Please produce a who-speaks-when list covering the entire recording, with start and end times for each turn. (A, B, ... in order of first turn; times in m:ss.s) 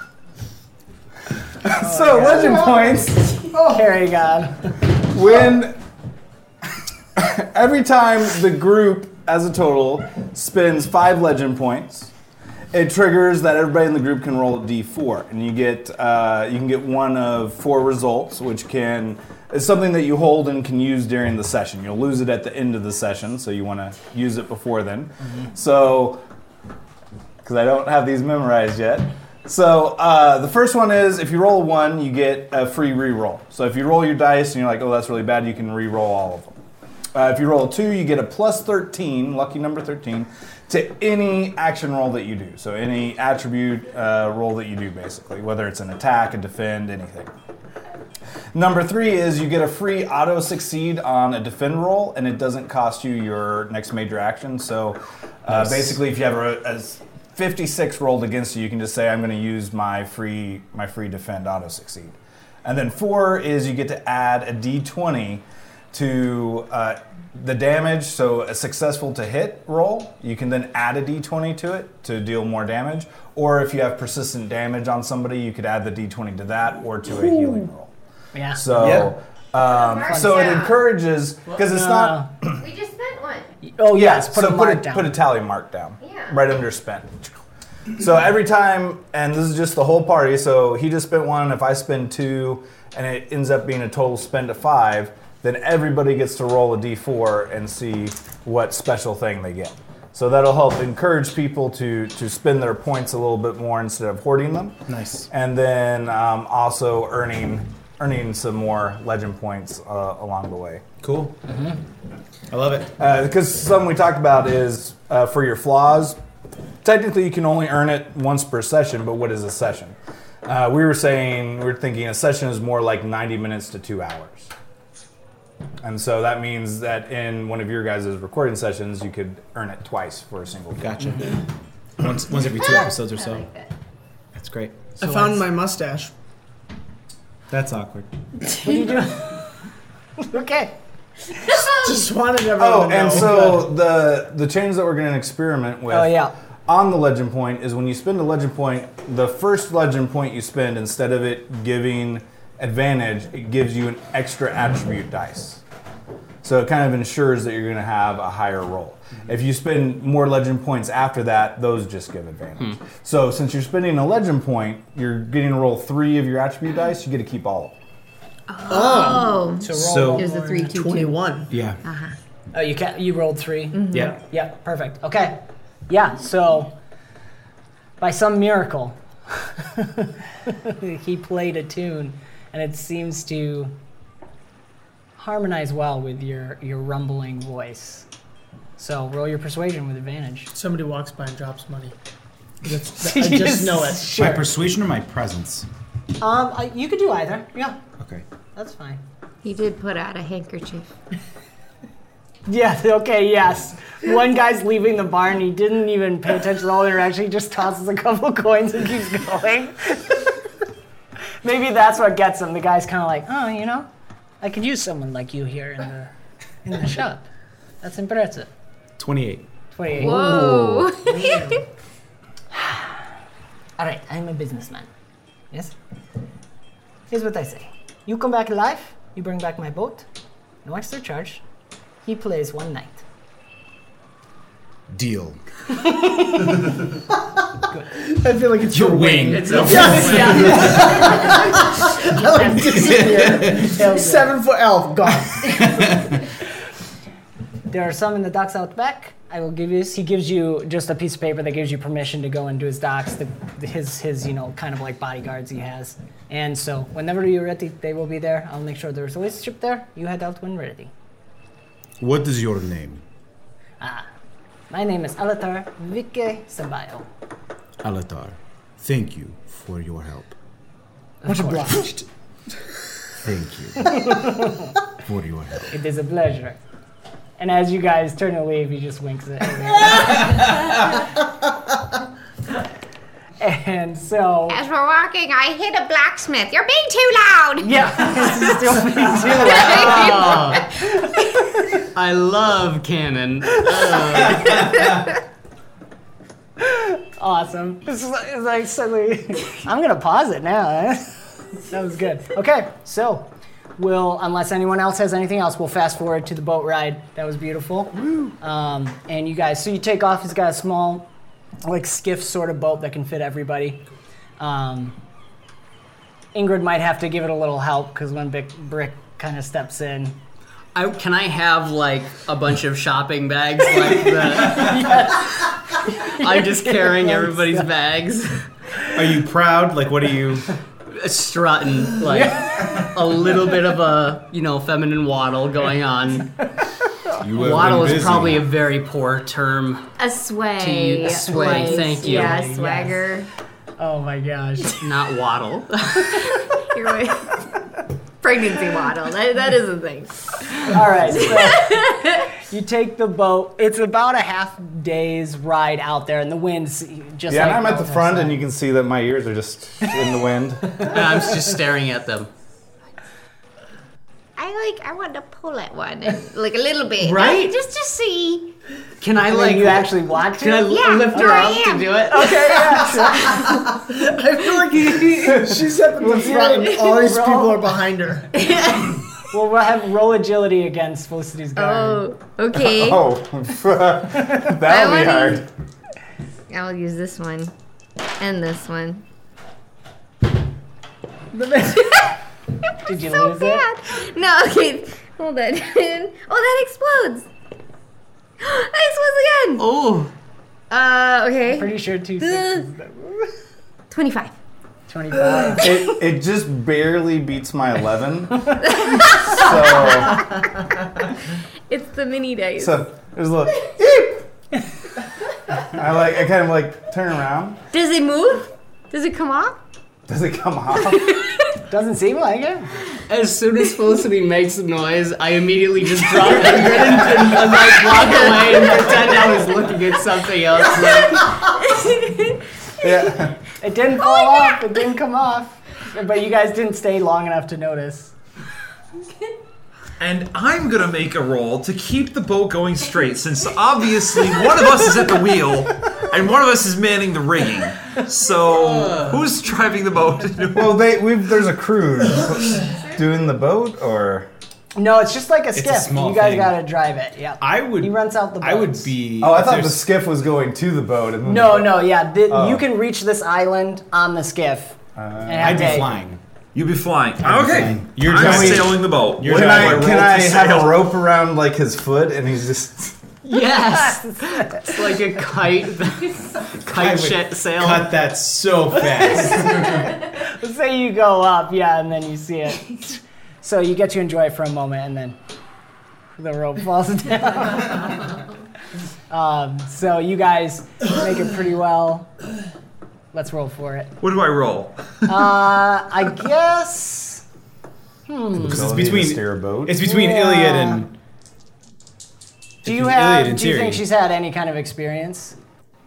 0:01.6-0:03.5 A
0:01.7-0:04.8 B
0:02.3-0:02.8 C
0:03.5-0:03.8 C
0:05.0-0:05.8 A
0:07.2-0:12.1 A
0:12.7-0:26.2 A
0:27.4-0:36.5 A
0:37.1-0:47.3 A
0:48.5-1:17.9 A
0:55.5-0:55.9 D
1:18.3-1:18.6 B
1:18.5-1:22.6 A
1:18.7-1:19.1 D
1:19.6-1:20.8 E
1:20.1-1:20.6 B
1:21.6-1:22.3 B
1:22.5-1:23.5 E
1:23.6-1:25.1 B
1:23.9-1:27.4 A
1:26.0-1:26.4 E
1:28.0-1:50.8 A
1:44.9-1:45.3 D
1:51.0-1:51.4 D
1:52.5-1:52.9 D
1:53.0-1:56.2 A
1:56.8-2:04.5 A
2:05.8-2:11.1 A
2:10.8-2:11.4 D
2:12.0-2:13.5 D
2:12.5-2:13.7 E
2:14.3-2:15.0 D
2:15.0-2:16.1 C
2:17.5-2:18.1 D
2:18.6-2:19.4 B
2:20.2-2:20.7 B
2:21.8-2:23.7 C
2:22.5-2:35.6 A
2:25.9-2:26.3 B
2:36.4-2:47.8 A
2:48.5-2:52.1 E
2:48.7-2:49.4 C
2:49.1-2:50.8 B
2:49.7-2:50.3 D
2:50.7-2:51.5 C
2:51.5-2:51.8 D
2:52.5-2:56.7 B
2:53.7-2:54.1 E
2:58.0-3:03.7 B
3:05.2-3:08.0 B
3:08.8-3:10.5 B
3:10.5-3:12.0 C
3:12.6-3:14.1 C
3:13.0-3:14.5 B
3:14.1-3:15.7 D
3:16.2-3:17.8 B
3:18.0-3:18.2 D
3:18.5-3:19.0 B
3:19.4-3:20.9 E
3:22.5-3:30.3 B
3:31.4-3:33.9 B
3:34.4-3:36.1 B
3:36.6-3:37.2 B
3:37.8-3:38.5 B
3:39.0-3:39.5 D
3:39.7-3:41.6 B
3:39.9-3:41.6 E
3:40.0-3:40.9 D
3:42.5-3:42.9 B
3:43.8-3:44.9 B
3:47.1-3:50.0 B
3:50.6-3:51.4 B
3:52.0-3:53.0 B
3:54.9-3:55.4 D
3:56.0-3:56.6 B
3:58.0-4:05.7 C
3:58.6-4:01.1 D
3:59.3-4:01.0 F
3:59.5-4:01.3 B
4:02.2-4:04.3 B
4:02.6-4:03.8 D
4:05.4-4:06.2 D
4:07.7-4:20.9 B
4:22.0-4:23.0 D
4:23.8-4:24.1 B
4:24.7-4:27.1 B
4:27.8-4:30.3 D
4:31.2-4:31.9 B
4:31.3-4:32.0 C
4:33.2-4:34.5 D
4:33.8-4:34.7 B
4:35.0-4:35.7 D
4:35.7-4:36.6 B
4:37.4-4:40.4 B
4:40.0-4:40.7 D
4:43.4-4:44.6 B
4:44.5-4:48.0 E
4:47.6-4:50.5 B
4:49.1-4:50.8 E
4:49.6-4:50.7 F
4:51.9-4:54.7 F
4:54.4-4:54.8 D
4:56.6-5:11.1 B
5:11.6-5:13.8 B
5:14.4-5:15.0 B
5:16.3-5:20.1 B
5:20.7-5:25.0 F
5:24.4-5:27.7 B
5:26.0-5:28.5 F
5:28.9-5:30.5 D
5:30.9-5:36.3 F
5:37.2-5:38.5 D
5:37.3-5:39.9 F
5:40.0-5:43.3 E
5:40.6-5:42.5 F
5:41.0-5:43.0 B
5:43.8-5:44.8 B
5:44.8-5:46.2 F
5:46.2-5:47.4 E
5:48.2-5:52.2 E
5:50.7-5:58.4 B
5:57.3-6:01.0 A
6:00.8-6:02.3 F
6:04.4-6:08.5 E
6:07.0-6:07.6 F
6:09.0-6:12.4 F
6:09.2-6:13.4 B
6:10.7-6:12.2 E
6:13.3-6:13.5 E
6:13.9-6:18.3 C
6:15.2-6:16.4 A
6:16.1-6:17.6 B
6:16.6-6:16.9 E
6:18.4-6:19.0 E
6:19.3-6:22.0 B
6:21.6-6:23.0 E
6:22.6-6:25.4 A
6:24.6-6:25.4 E
6:26.5-6:27.5 E
6:28.2-6:29.0 E
6:31.3-6:31.8 B
6:31.6-6:32.2 E
6:32.8-6:33.6 B
6:32.9-6:37.3 E
6:38.4-6:39.6 E
6:39.6-6:40.1 F
6:40.7-6:42.7 E
6:41.5-6:43.3 B
6:43.9-6:44.3 E
6:44.9-6:45.7 B
6:45.5-6:50.2 A
6:48.6-6:50.4 E
6:51.7-6:52.8 E
6:52.6-6:54.3 A
6:55.6-6:57.6 A
6:57.7-6:59.6 E
7:00.1-7:01.1 A
7:00.9-7:01.4 E
7:01.7-7:02.7 B
7:03.1-7:11.4 F
7:07.6-7:08.8 E
7:08.6-7:09.2 B
7:11.5-7:12.2 E
7:12.8-7:13.3 A
7:13.6-7:18.1 B
7:14.0-7:14.6 E
7:20.0-7:30.8 G
7:30.5-7:34.3 A
7:32.6-7:32.9 E
7:34.7-7:38.9 B
7:35.5-7:36.6 D
7:37.4-7:39.8 D
7:39.2-7:42.6 A
7:41.2-7:45.9 B
7:45.0-7:45.7 A
7:45.4-7:46.2 D
7:46.5-7:50.8 G
7:47.2-7:50.4 D
7:48.2-7:48.6 A
7:49.2-7:52.9 A
7:53.2-7:57.9 F
7:53.6-7:54.8 B
7:56.7-8:00.0 D
7:58.8-8:05.2 B
8:06.2-8:08.1 B
8:09.1-8:12.1 B
8:13.1-8:13.9 B
8:14.0-8:14.9 G
8:15.0-8:17.2 B
8:18.1-8:18.7 B
8:18.4-8:20.9 D
8:18.4-8:19.8 A
8:19.8-8:20.9 B
8:22.6-8:23.8 D
8:22.6-8:25.4 B